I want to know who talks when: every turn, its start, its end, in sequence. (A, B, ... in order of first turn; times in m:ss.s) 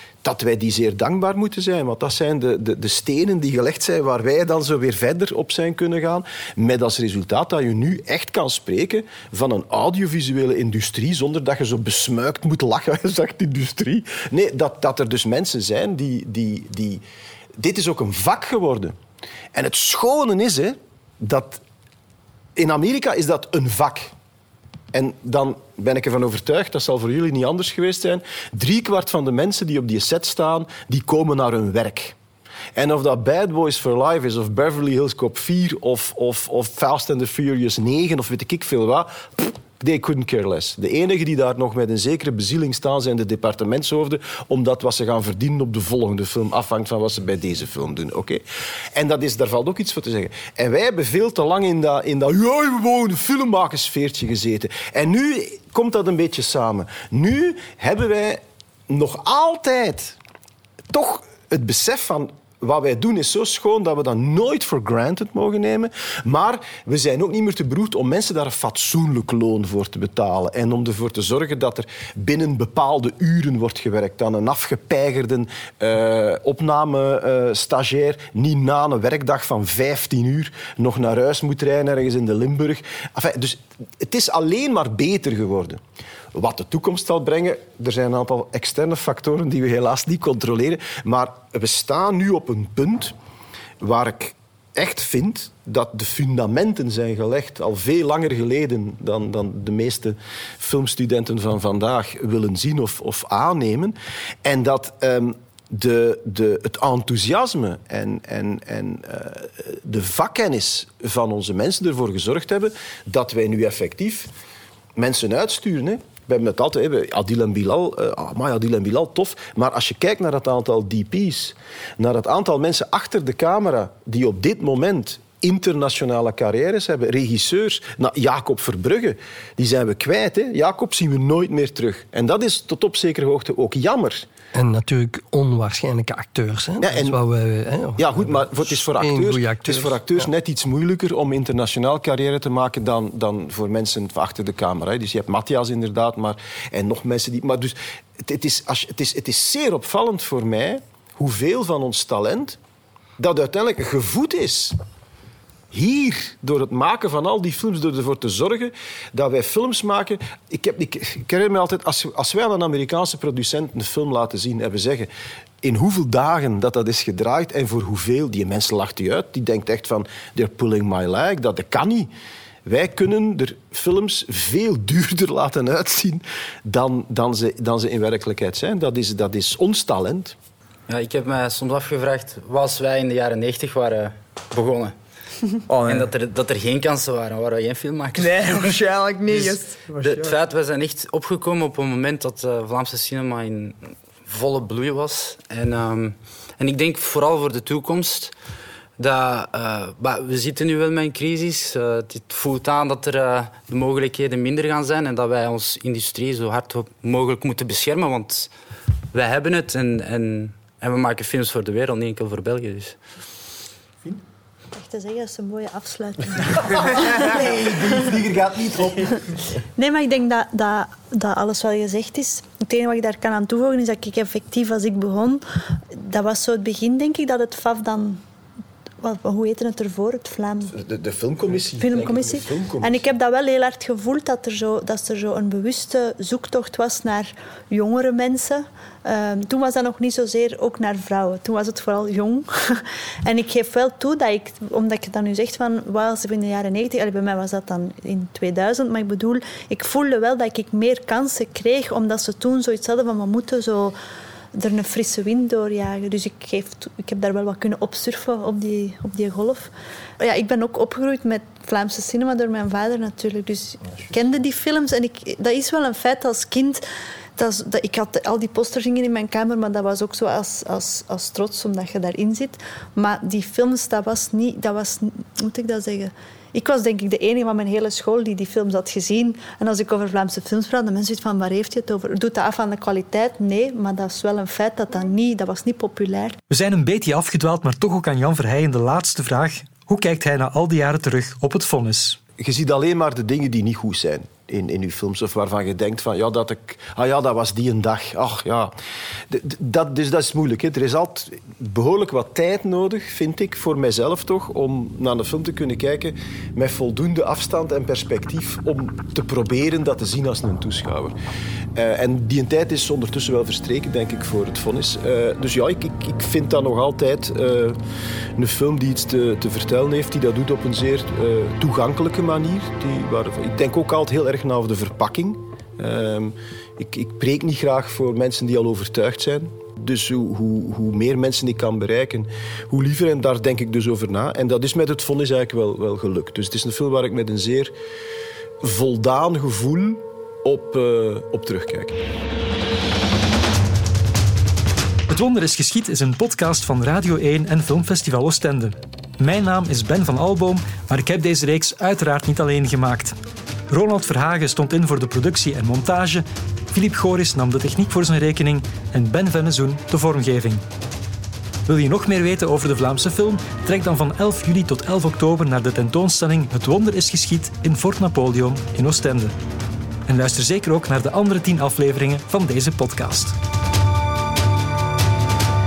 0:00.2-0:17.0 A
0:17.6-0:19.0 A
0:19.5-0:21.6 A
0:22.6-0:24.1 A
0:24.9-0:32.2 A
0:32.7-0:48.4 A
0:48.9-1:00.2 A
1:00.9-1:25.8 A
1:26.3-1:33.1 A
1:33.8-1:54.3 A
1:55.0-2:14.3 A
2:14.5-2:20.3 B
2:16.8-2:17.2 A
2:18.0-2:32.6 A
2:33.2-2:34.8 A
2:35.7-2:45.1 A
2:45.6-2:52.1 A
2:52.6-3:00.4 A
3:00.9-3:04.9 C
3:05.7-3:06.1 D
3:05.9-3:08.8 C
3:08.1-3:10.4 D
3:09.3-3:18.3 C
3:19.0-3:28.5 C
3:29.1-3:33.0 C
3:34.7-3:38.1 E
3:36.6-3:39.2 A
3:39.8-3:48.2 E
3:49.0-3:50.8 E
3:50.7-3:53.0 A
3:51.7-4:14.0 E
4:14.5-4:26.8 E
4:27.4-4:46.4 E
4:46.5-4:52.2 F
4:52.4-4:58.7 A
4:59.3-5:11.2 A
5:11.7-5:17.8 A
5:18.4-5:37.7 A
5:38.6-5:42.0 A
5:45.1-5:53.2 F
5:53.7-6:00.6 F
6:01.7-6:09.3 F
6:10.1-6:13.4 F